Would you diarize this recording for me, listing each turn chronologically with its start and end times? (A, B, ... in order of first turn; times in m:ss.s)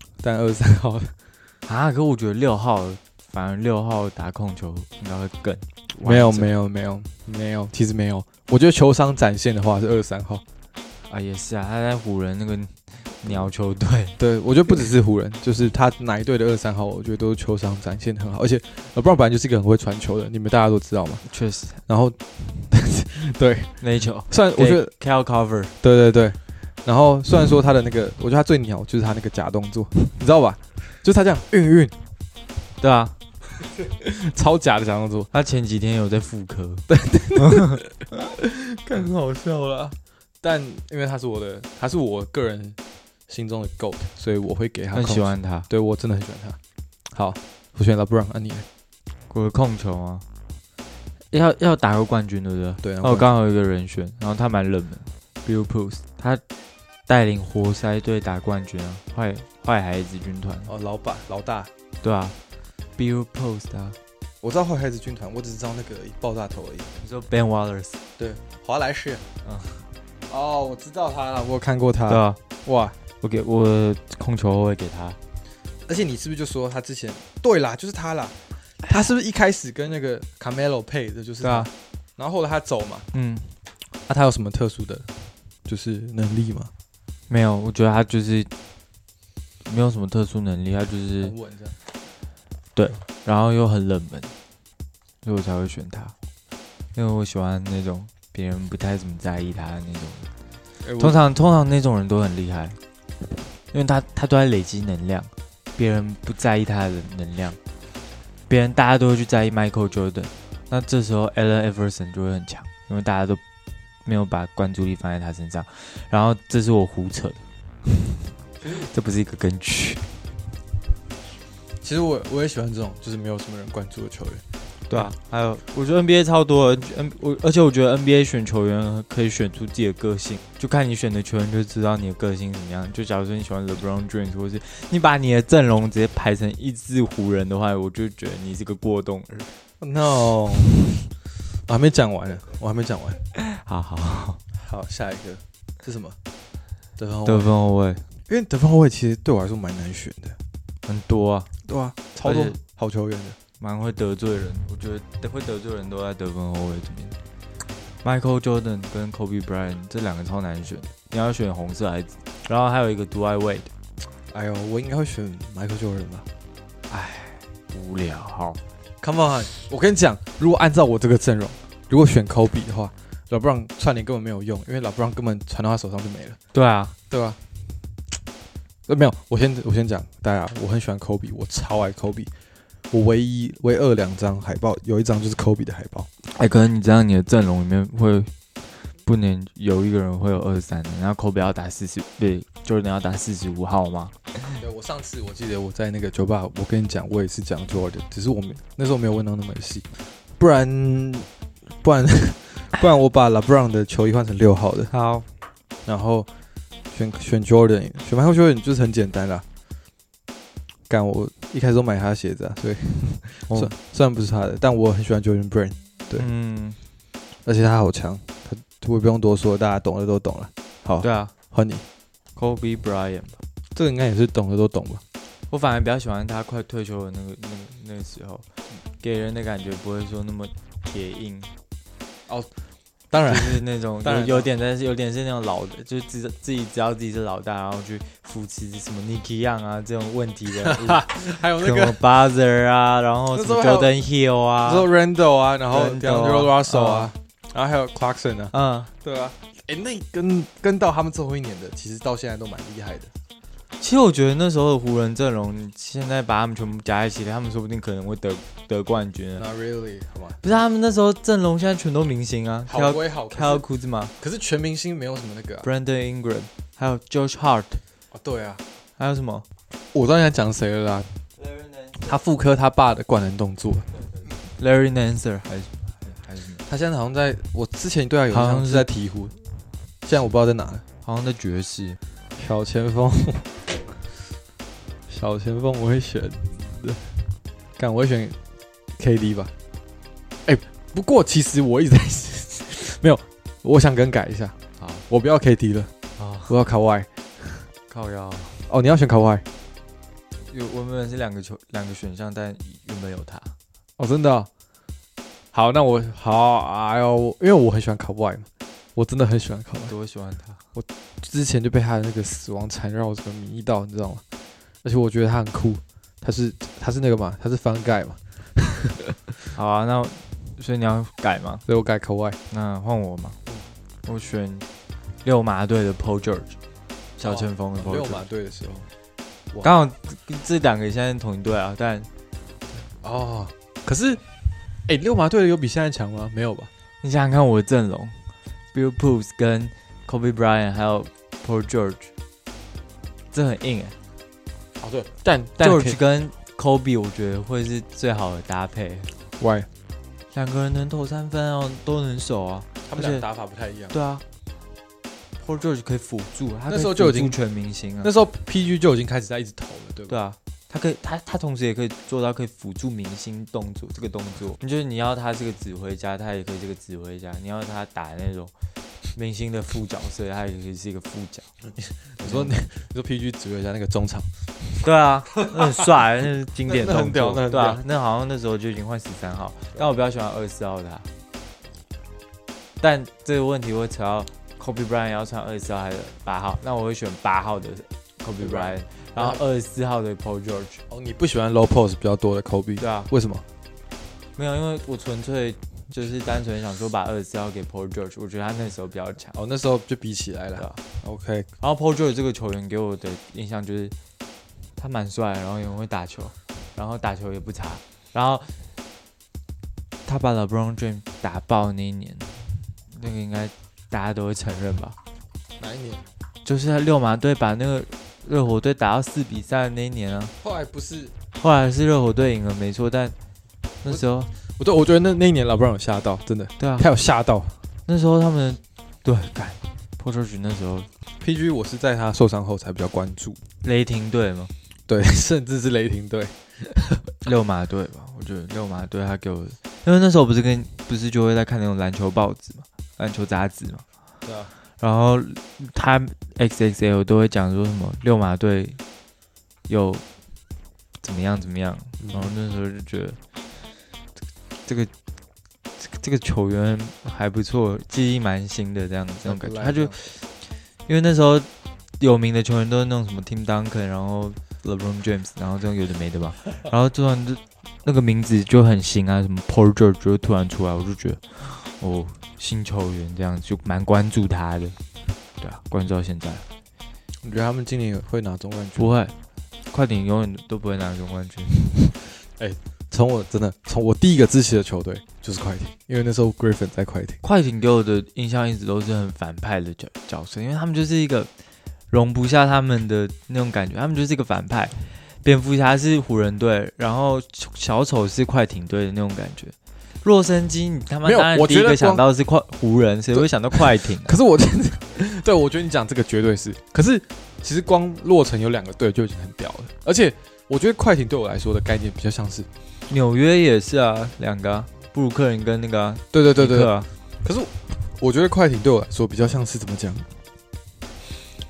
0:00.2-0:01.1 A
0:01.7-0:06.5 B
0:06.0-0:10.4 A
0:11.1-0:14.2 B
0:14.2-0:21.2 A
0:21.2-0:21.8 B
0:21.9-0:23.8 A
0:23.8-0:25.8 B
0:24.3-0:24.9 A
0:25.8-0:32.0 A
0:32.8-0:33.2 B
0:33.8-0:35.3 A
0:35.3-0:36.9 B
0:36.9-0:39.0 A
0:37.4-0:37.8 B
0:38.9-0:40.0 B
0:40.4-0:42.8 A
0:43.3-0:46.6 A
0:44.9-0:45.7 B
0:47.1-0:48.7 A
0:49.3-0:50.2 B
0:51.3-0:56.4 B
0:52.8-0:53.3 A
0:57.1-1:00.7 B
1:00.7-1:01.7 A
1:02.0-1:02.4 B
1:03.0-1:04.0 B
1:04.4-1:06.9 A
1:07.0-1:08.0 B
1:08.2-1:09.2 A
1:09.4-1:09.8 B
1:10.3-1:13.0 A
1:12.1-1:12.4 B
1:13.2-1:15.2 B
1:15.9-1:23.1 A
1:21.4-1:21.7 B
1:23.1-1:23.6 B
1:24.1-1:25.1 A
1:25.7-1:26.7 A
1:27.3-1:28.5 B
1:29.6-1:31.3 B
1:31.2-1:31.8 A
1:32.8-1:34.3 B
1:35.2-1:36.1 B
1:36.9-1:40.3 B
1:40.8-1:41.2 A
1:41.0-1:42.8 B
1:43.7-1:47.6 B
1:48.5-1:53.4 B
1:54.0-1:57.4 B
1:58.6-2:00.0 B
2:01.8-2:05.1 A
2:04.9-2:19.5 B
2:19.8-2:20.9 A
2:21.7-2:23.2 A
2:23.4-2:24.4 B
2:24.6-2:26.2 A
2:27.0-2:27.5 A
2:27.3-2:28.1 B
2:28.3-2:30.4 A
2:30.8-2:31.5 B
2:31.7-2:33.4 A
2:32.2-2:32.6 B
2:33.6-2:37.2 B
2:38.0-2:43.7 B
2:44.3-2:46.3 A
2:46.9-2:48.6 B
2:49.0-2:56.4 A
2:56.5-2:57.0 B
2:57.1-2:57.4 A
2:58.9-3:02.3 A
3:02.9-3:06.1 A
3:06.3-3:08.3 B
3:09.1-3:14.4 B
3:14.6-3:21.3 A
3:21.8-3:24.9 A
3:24.9-3:25.3 B
3:25.9-3:26.3 A
3:26.9-3:29.4 A
3:30.9-3:36.3 A
3:36.2-3:36.8 B
3:37.5-3:41.8 A
3:41.0-3:41.3 B
3:42.4-3:43.4 B
3:43.8-3:45.0 A
3:45.5-3:51.5 B
3:53.1-3:54.5 A
3:53.3-4:04.9 B
4:00.6-4:02.0 A
4:03.3-4:03.9 A
4:04.6-4:13.1 A
4:05.7-4:07.1 B
4:08.5-4:08.9 B
4:13.8-4:19.4 B
4:19.4-4:20.4 A
4:20.4-4:24.1 B
4:22.7-4:23.6 A
4:24.2-4:25.7 A
4:25.6-4:27.8 B
4:28.1-4:28.6 A
4:29.0-4:29.5 B
4:29.9-4:31.1 A
4:31.4-4:32.2 B
4:32.0-4:33.9 A
4:34.4-4:36.7 B
4:36.7-4:39.4 A
4:38.3-4:38.9 B
4:40.0-4:40.8 A
4:41.0-4:42.0 B
4:42.4-4:43.6 A
4:45.1-4:47.0 A
4:47.8-4:48.4 A
4:49.0-4:49.5 A
4:50.5-4:54.6 A
4:54.8-4:55.0 B
4:55.1-4:55.9 A
4:56.2-4:56.5 B
4:56.5-4:57.6 A
4:57.9-4:58.7 B
4:58.7-4:59.4 A
5:00.5-5:03.5 B
5:04.0-5:04.5 A
5:05.5-5:09.9 A
5:09.9-5:10.6 B
5:10.8-5:14.2 A
5:14.8-5:19.0 A
5:19.6-5:21.6 B
5:21.7-5:22.4 A
5:22.5-5:23.4 B
5:24.0-5:24.6 B
5:25.2-5:26.6 B
5:27.2-5:28.2 B
5:27.2-5:28.9 A
5:29.6-5:32.1 B
5:32.8-5:34.2 A
5:34.9-5:36.7 A
5:37.0-5:42.1 B
5:43.3-5:44.0 B
5:44.8-5:46.0 A
5:45.6-5:49.1 B
5:49.4-5:49.7 A
5:50.3-5:53.2 B
5:52.9-5:53.9 A
5:53.9-5:54.2 B
5:55.4-5:58.1 B
5:56.7-5:57.4 A
5:58.0-6:00.2 A
6:00.1-6:08.5 B
6:09.1-6:11.5 B
6:11.8-6:14.3 A
6:12.2-6:12.6 B
6:14.8-6:21.1 B
6:15.4-6:15.9 A
6:16.7-6:17.8 A
6:22.8-6:30.8 B
6:28.4-6:29.4 A
6:30.9-6:33.4 A
6:32.8-6:33.1 B
6:34.4-6:39.4 B
6:39.4-6:41.5 A
6:41.6-6:44.0 B
6:44.8-6:48.6 B
6:50.0-6:55.0 B
6:55.6-6:56.0 A
6:56.4-7:00.3 B
7:00.4-7:01.1 A
7:01.4-7:03.2 B
7:03.8-7:04.3 B
7:04.6-7:07.6 A
7:06.6-7:06.9 B
7:07.9-7:10.9 B
7:11.2-7:13.4 A
7:13.6-7:14.5 B
7:14.9-7:17.0 A
7:17.2-7:23.8 B
7:24.2-7:24.5 A
7:24.8-7:28.8 B
7:29.7-7:30.0 B
7:31.0-7:33.2 B
7:32.0-7:32.3 A
7:34.6-7:34.9 B
7:35.8-7:40.3 B
7:39.2-7:40.0 A
7:40.9-7:41.5 B
7:42.0-7:54.8 B
7:55.4-7:56.4 B
7:57.2-7:58.9 A
7:58.8-7:59.2 B
7:59.7-8:01.6 B
8:02.4-8:07.2 A
8:07.2-8:11.3 B
8:11.9-8:24.2 B
8:21.0-8:22.0 A
8:23.2-8:32.5 A
8:32.9-8:36.9 B
8:36.1-8:36.7 A
8:37.2-8:40.1 A